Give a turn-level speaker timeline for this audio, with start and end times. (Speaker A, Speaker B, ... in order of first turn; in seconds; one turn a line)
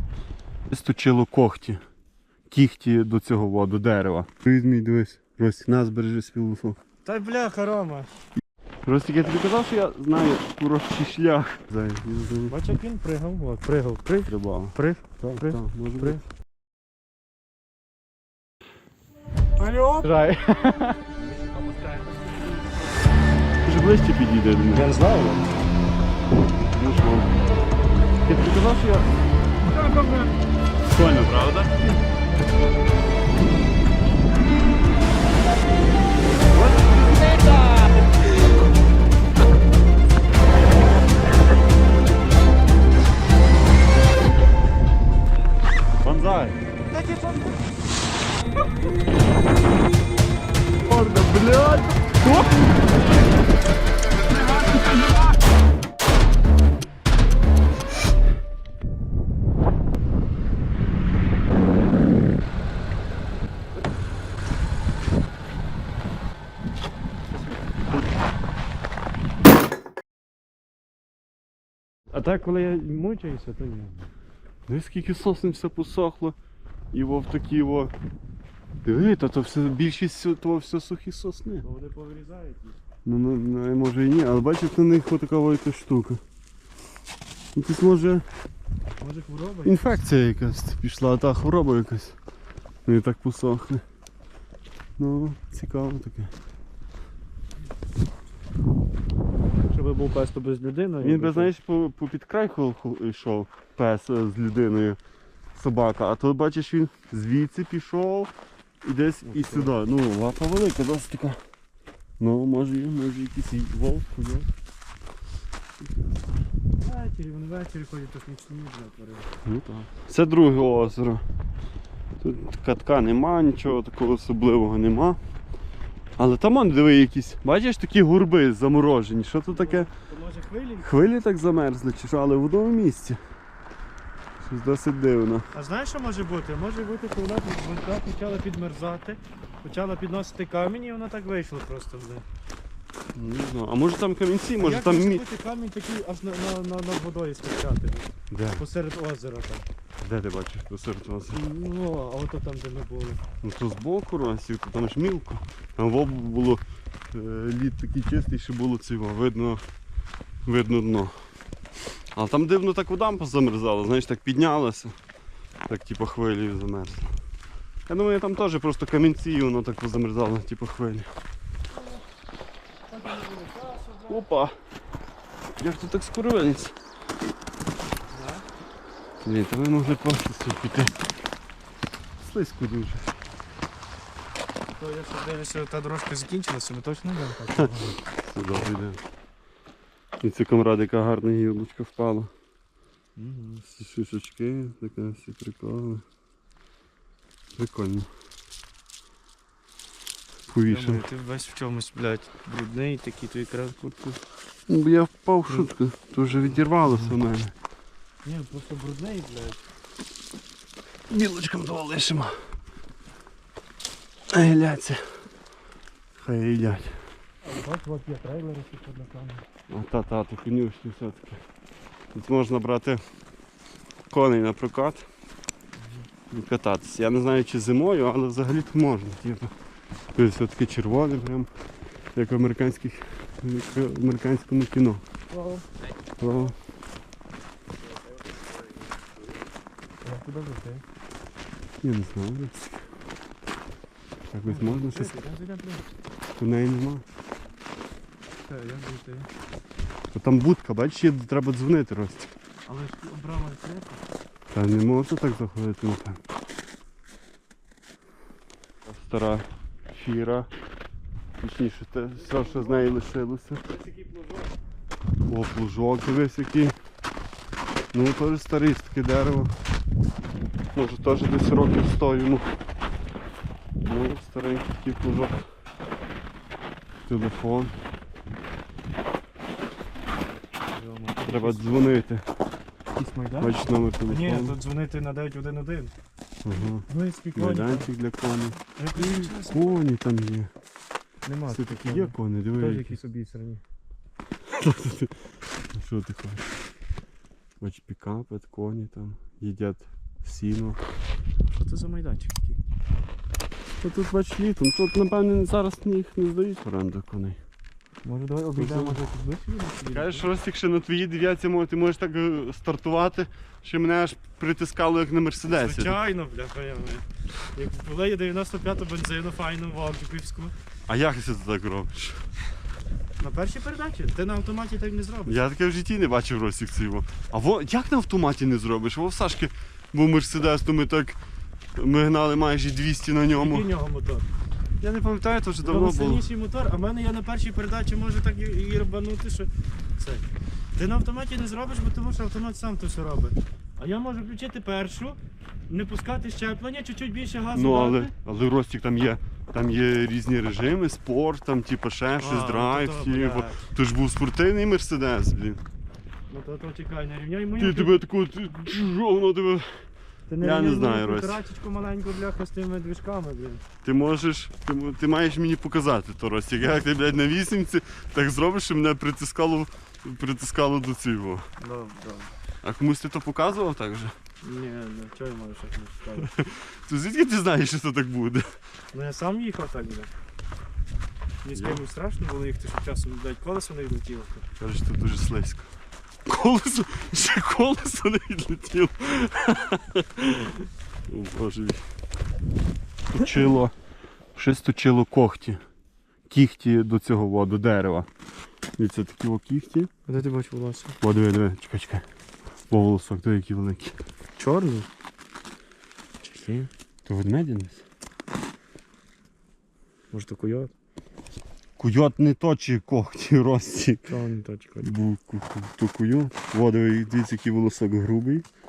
Speaker A: 0.7-1.8
Speaker A: 2.5-6.8
Speaker B: 7.0-8.2
Speaker A: 8.8-12.6
Speaker B: 12.5-16.2
Speaker A: 14.3-16.2
Speaker A: 19.6-20.1
Speaker B: 19.9-23.1
Speaker A: 23.6-24.9
Speaker B: 24.7-25.5
Speaker A: 26.6-27.3
Speaker A: 28.2-29.1
Speaker B: 29.7-30.3
Speaker A: 30.9-31.9
Speaker A: 36.5-37.5
Speaker A: 46.0-46.6
Speaker B: 46.9-47.6
Speaker A: 50.8-52.8
Speaker B: 72.1-74.1
Speaker A: 74.7-76.3
Speaker A: 76.9-77.9
Speaker A: 78.8-81.6
Speaker B: 81.6-82.8
Speaker A: 83.0-86.2
Speaker A: 87.5-88.2
Speaker B: 89.0-89.8
Speaker A: 89.6-92.2
Speaker A: 92.8-93.8
Speaker A: 95.0-96.3
Speaker B: 99.6-101.5
Speaker A: 101.0-105.0
Speaker A: 105.5-108.3
Speaker A: 108.8-111.4
Speaker B: 109.3-109.7
Speaker A: 112.2-114.5
Speaker B: 116.8-119.3
Speaker A: 119.4-121.2
Speaker A: 122.2-125.2
Speaker A: 126.2-129.9
Speaker B: 129.5-130.9
Speaker A: 130.8-133.2
Speaker A: 134.4-135.5
Speaker B: 135.5-142.2
Speaker A: 143.1-145.2
Speaker B: 144.6-149.7
Speaker A: 148.3-148.6
Speaker A: 150.0-151.4
Speaker B: 151.3-153.2
Speaker A: 153.4-159.6
Speaker A: 160.4-161.2
Speaker A: 162.1-164.9
Speaker A: 165.7-167.1
Speaker A: 167.9-171.1
Speaker B: 171.7-172.0
Speaker B: 172.9-174.2
Speaker A: 174.1-174.5
Speaker A: 175.6-176.7
Speaker B: 178.1-178.4
Speaker A: 179.2-181.1
Speaker A: 182.2-183.2
Speaker B: 184.8-188.0
Speaker A: 188.1-189.0
Speaker A: 190.2-192.3
Speaker B: 193.2-193.7
Speaker A: 193.7-196.0
Speaker A: 197.6-198.1
Speaker A: 200.5-201.0
Speaker B: 200.7-204.2
Speaker A: 204.7-207.5
Speaker B: 208.2-209.6
Speaker A: 211.1-212.3
Speaker A: 214.3-215.2
Speaker A: 216.2-217.0
Speaker B: 217.4-219.4
Speaker A: 219.7-221.4
Speaker A: 222.1-223.0
Speaker A: 224.1-225.1
Speaker B: 225.8-226.1
Speaker A: 226.3-229.5
Speaker A: 230.2-231.5
Speaker A: 232.1-235.0
Speaker B: 235.3-235.7
Speaker A: 236.2-236.6
Speaker B: 240.0-240.8
Speaker A: 241.8-242.9
Speaker A: 244.3-245.1
Speaker B: 244.4-245.9
Speaker A: 246.4-247.0
Speaker B: 248.4-249.3
Speaker A: 250.1-252.3
Speaker B: 252.7-254.0
Speaker A: 254.5-256.2
Speaker A: 258.9-260.5
Speaker A: 261.4-263.7
Speaker B: 262.2-262.9
Speaker B: 263.7-264.5
Speaker A: 265.3-266.7
Speaker A: 267.9-269.5
Speaker A: 270.7-272.5
Speaker A: 273.8-275.4
Speaker A: 277.1-277.8
Speaker B: 280.7-281.9
Speaker A: 281.2-282.3
Speaker B: 282.9-285.9
Speaker A: 283.4-284.6
Speaker A: 286.4-290.5
Speaker B: 286.5-287.9
Speaker B: 288.8-289.8
Speaker B: 291.2-293.6
Speaker A: 291.5-293.0
Speaker A: 294.5-295.2
Speaker A: 295.7-296.4
Speaker A: 297.6-300.8
Speaker B: 301.5-302.6
Speaker A: 303.8-307.4
Speaker B: 308.0-310.3
Speaker A: 308.6-309.0
Speaker A: 309.9-316.0
Speaker B: 315.5-320.5
Speaker A: 320.9-322.2
Speaker B: 323.2-325.4
Speaker A: 325.2-331.2
Speaker A: 331.8-333.7
Speaker B: 333.3-334.2
Speaker A: 334.8-336.3
Speaker B: 335.6-345.2
Speaker B: 345.7-348.1
Speaker A: 347.5-355.6
Speaker B: 352.2-353.6
Speaker B: 356.3-358.0
Speaker A: 357.6-359.8
Speaker B: 360.3-363.6
Speaker A: 360.4-361.4
Speaker A: 363.8-371.5
Speaker B: 371.6-372.3
Speaker A: 372.6-374.1
Speaker B: 374.4-376.3
Speaker A: 376.2-378.5
Speaker B: 378.9-380.1
Speaker B: 381.4-384.4
Speaker A: 381.5-381.8
Speaker A: 384.6-385.7
Speaker A: 386.2-391.8
Speaker A: 393.1-393.7
Speaker A: 394.4-395.6
Speaker A: 396.3-398.1
Speaker A: 398.8-399.9
Speaker B: 400.1-401.0
Speaker A: 401.0-402.0
Speaker A: 402.7-403.9
Speaker B: 404.4-404.9
Speaker B: 406.2-406.7
Speaker A: 407.1-407.8
Speaker B: 410.1-410.7
Speaker A: 411.8-414.1
Speaker B: 414.1-414.9
Speaker A: 414.8-418.4